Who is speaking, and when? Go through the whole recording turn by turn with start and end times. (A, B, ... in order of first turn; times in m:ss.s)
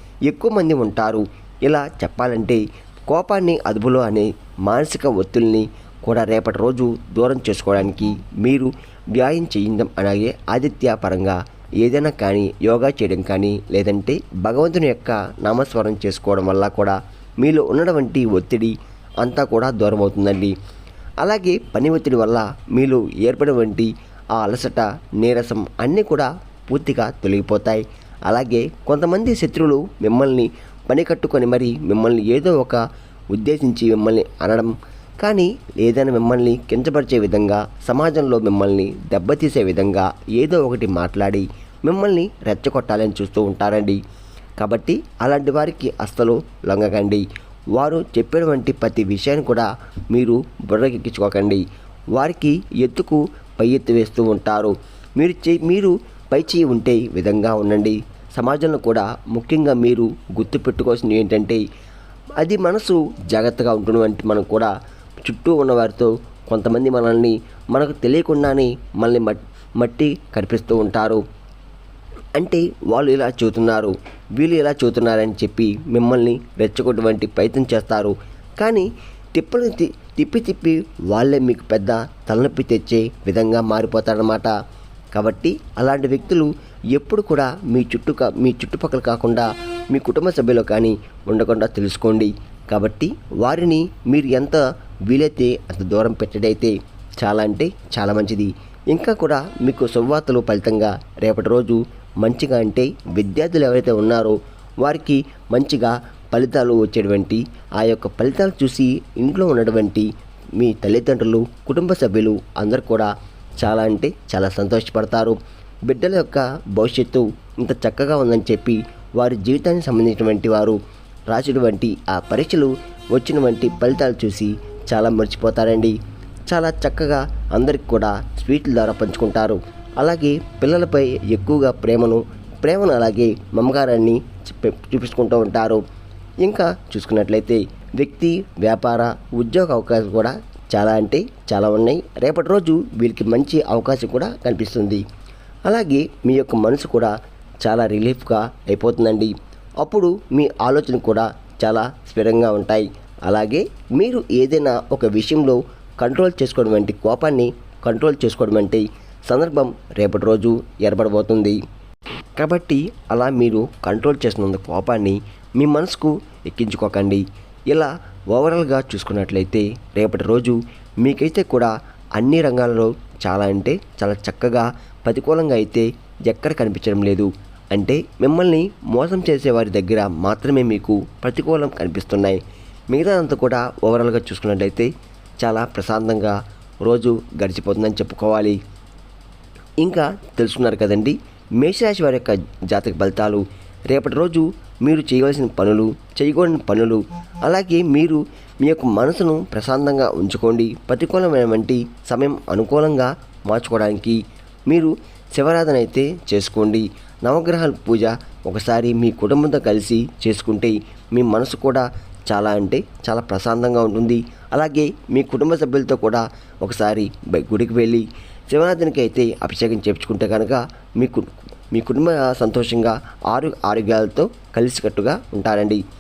0:00.3-0:20.5 A
0:21.2-0:44.0 A
0:44.6-1:01.6 A
1:02.4-1:04.7 A
1:05.2-1:11.2 A
1:12.4-1:24.5 A
1:25.1-1:53.1 A
1:53.6-2:00.8 A
2:01.3-2:06.0 A
2:06.5-2:15.8 A
2:16.4-2:25.0 A
2:25.7-2:41.6 A
2:42.4-3:02.4 A
3:02.9-3:04.9 A
3:05.4-3:08.6 A
3:09.8-3:45.8 A